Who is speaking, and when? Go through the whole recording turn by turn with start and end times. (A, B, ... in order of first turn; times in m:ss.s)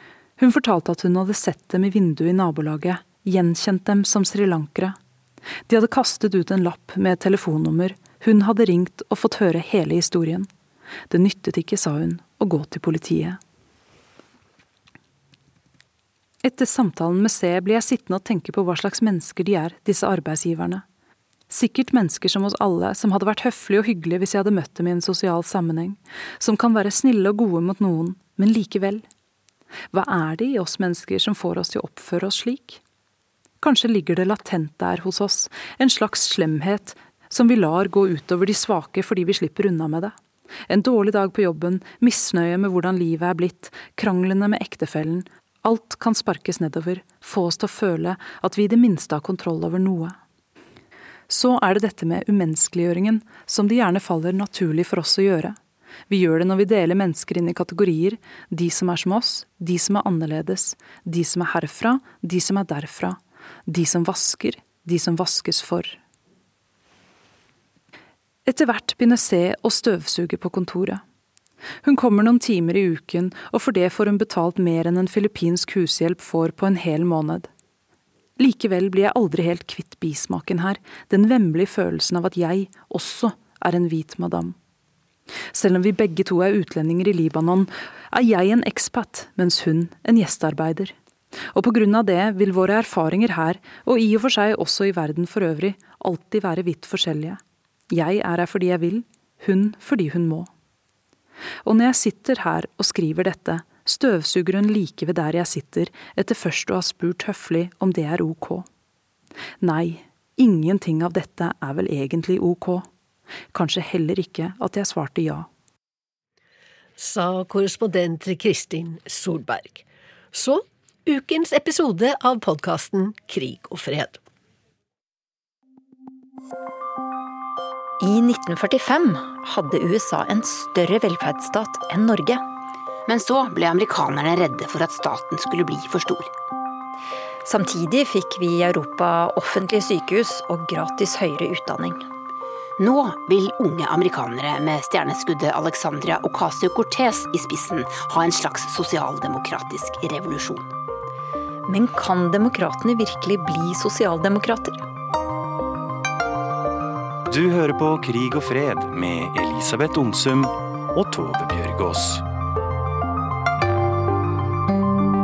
0:00.4-0:05.0 A
0:05.7-0:10.5 A
0:11.1-0:13.4 A
0:16.4-0:20.8 A
0:21.5-0:29.0 A
0:29.9-0:32.8 A
0:33.6-0:40.1 A
0:40.7-0:50.2 A
0:51.3-0:55.6 A
0:56.1-1:06.0 A
1:08.4-1:11.0 A
1:11.8-1:17.5 A
1:18.4-1:24.6 A
1:25.5-1:30.9 A
1:31.5-1:37.4 A
1:37.9-1:40.5 A
1:41.6-1:48.7 A
1:49.6-1:52.8 A
1:53.5-1:55.5 A
1:57.0-2:04.2 B
2:08.0-2:12.4 C
2:13.1-2:16.3 D
2:17.4-2:22.0 C
2:22.8-2:30.7 D
2:31.7-2:34.8 C
2:37.3-2:42.2 E